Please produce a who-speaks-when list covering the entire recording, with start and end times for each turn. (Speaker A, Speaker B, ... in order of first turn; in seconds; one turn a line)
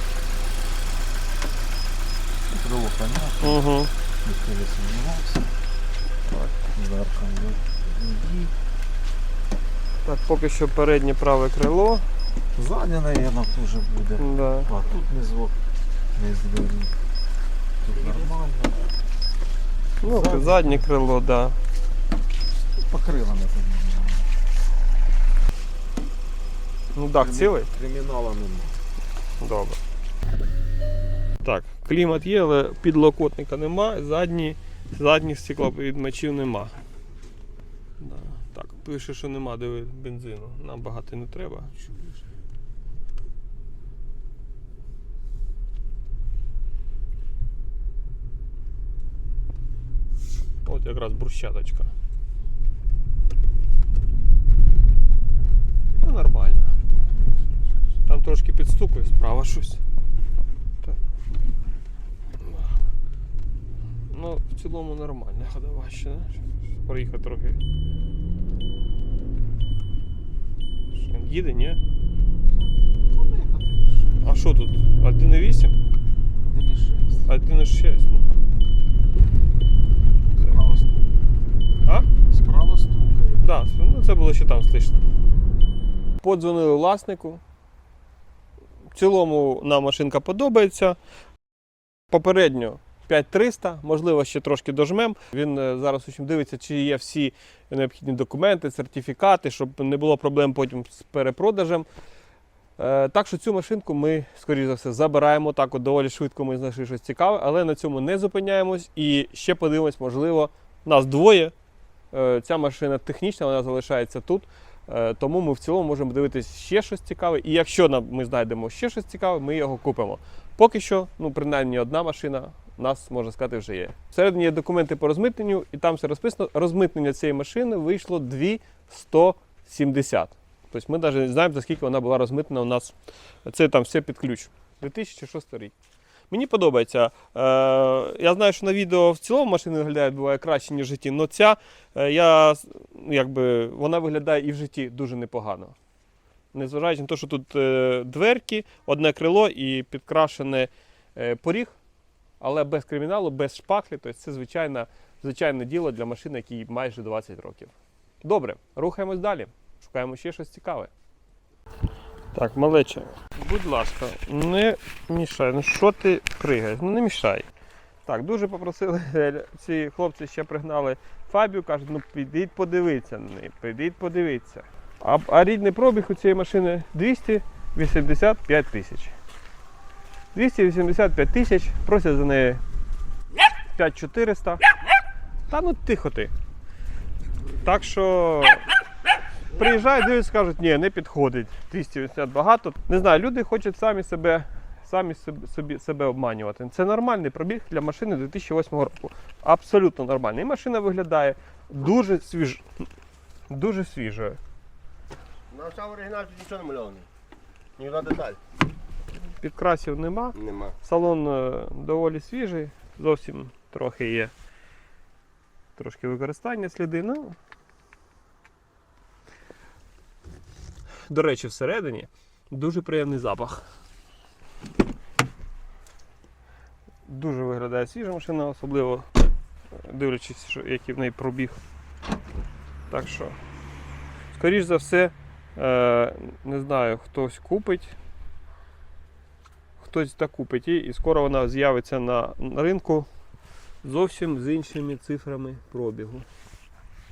Speaker A: 2.5-3.7
Speaker B: 3.4-3.9
Speaker A: 4.2-5.5
Speaker B: 6.3-6.6
Speaker A: 6.7-8.5
Speaker B: 10.1-12.1
Speaker A: 12.6-15.6
Speaker B: 14.2-14.7
Speaker A: 16.1-16.9
Speaker A: 17.8-18.9
Speaker B: 20.0-21.6
Speaker A: 20.0-20.9
Speaker A: 22.7-24.3
Speaker B: 26.9-27.7
Speaker A: 27.2-28.8
Speaker B: 29.4-29.8
Speaker B: 31.4-36.8
Speaker B: 38.0-41.7
Speaker A: 41.7-42.3
Speaker B: 50.6-51.9
Speaker B: 56.0-56.7
Speaker B: 58.1-59.8
Speaker B: 62.4-62.7
Speaker B: 64.1-67.6
Speaker B: 70.9-71.8
Speaker A: 73.1-74.3
Speaker B: 74.2-75.8
Speaker A: 76.4-77.3
Speaker B: 77.3-78.3
Speaker A: 80.4-81.1
Speaker A: 82.3-83.5
Speaker B: 83.4-85.0
Speaker B: 86.2-87.4
Speaker B: 88.9-91.0
Speaker B: 92.1-101.9
Speaker B: 102.8-111.5
Speaker B: 112.1-135.8
Speaker B: 136.3-145.7
Speaker B: 146.5-151.8
Speaker B: 152.4-157.7
Speaker B: 158.2-160.9
Speaker B: 162.3-167.5
Speaker B: 168.1-179.1
Speaker B: 180.3-182.6
Speaker B: 183.7-184.6
Speaker B: 185.5-186.3
Speaker B: 187.6-188.7
Speaker B: 189.5-202.7
Speaker B: 203.5-204.4
Speaker C: 205.5-207.1
Speaker C: 207.8-208.4
Speaker B: 209.4-214.3
Speaker C: 210.3-210.8
Speaker B: 215.8-217.3
Speaker B: 221.1-223.6
Speaker B: 227.1-229.1
Speaker B: 229.8-231.6
Speaker B: 232.9-233.4
Speaker B: 234.3-237.9
Speaker B: 239.8-243.1
Speaker B: 243.8-246.3